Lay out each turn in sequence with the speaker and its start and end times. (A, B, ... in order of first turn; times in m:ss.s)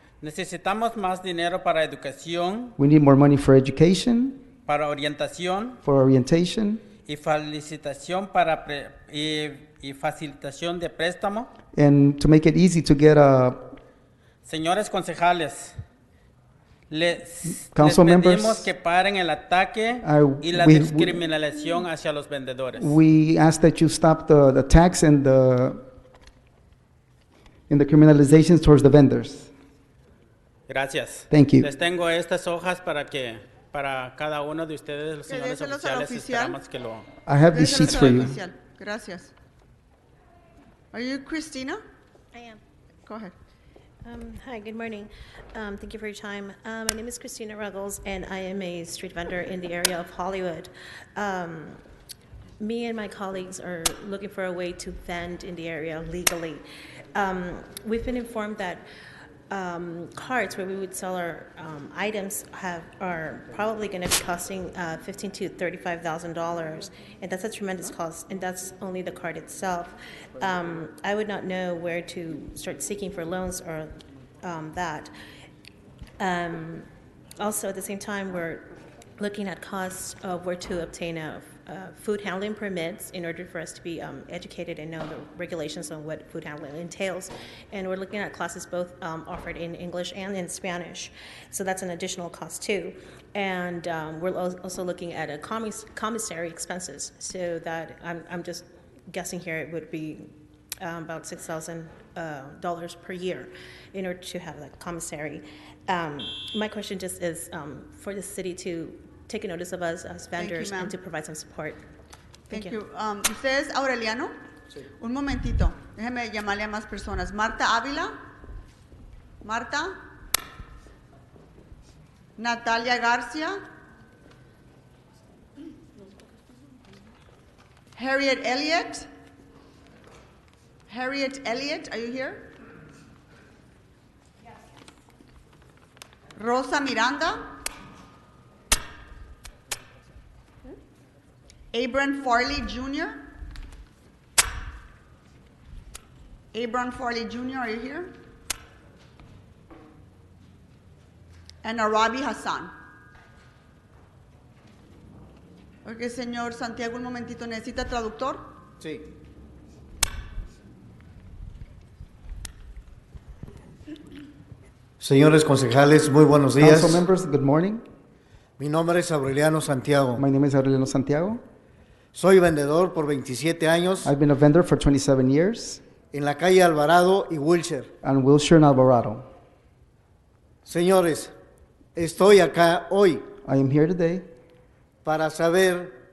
0:00.2-0:02.8 A
0:02.8-0:04.4 B
0:04.7-0:05.8 A
0:05.8-0:06.8 B
0:07.0-0:11.5 A
0:11.8-0:13.7 B
0:14.4-0:15.8 A
0:16.9-0:23.0 A
0:17.7-0:18.7 B
0:20.0-0:21.2 B
0:22.8-0:25.8 B
0:27.7-0:29.5 B
0:30.7-0:37.1 A
0:31.3-0:31.7 B
0:35.3-0:36.6 C
0:37.3-0:38.4 B
0:37.5-0:39.3 C
0:40.9-0:41.8 C
0:42.3-0:42.6 D
0:43.1-0:43.3 C
0:44.1-0:51.8 D
0:52.6-0:56.6 D
0:57.1-0:58.8 D
0:59.5-1:13.9 D
1:14.4-1:15.1 D
1:16.2-1:16.9 D
1:17.4-1:18.6 D
1:19.2-1:40.3 D
1:40.8-1:51.8 D
1:50.4-1:51.0 C
1:52.5-1:52.8 D
1:52.5-1:54.3 C
1:55.0-1:58.1 C
1:59.4-2:00.0 C
2:02.4-2:03.6 C
2:08.0-2:09.1 C
2:10.9-2:12.5 C
2:16.4-2:17.4 C
2:21.7-2:23.3 C
2:26.5-2:28.1 C
2:31.6-2:32.7 C
2:35.8-2:38.4 C
2:38.8-2:39.1 E
2:45.0-2:47.0 E
2:46.6-2:47.8 B
2:48.6-2:50.2 E
2:50.2-2:51.4 B
2:52.1-2:54.1 E
2:54.0-2:55.8 B
2:56.1-2:57.9 E
2:58.0-2:59.3 B
3:00.7-3:01.3 E
3:02.0-3:03.3 E
3:03.4-3:04.2 B
3:05.0-3:06.0 E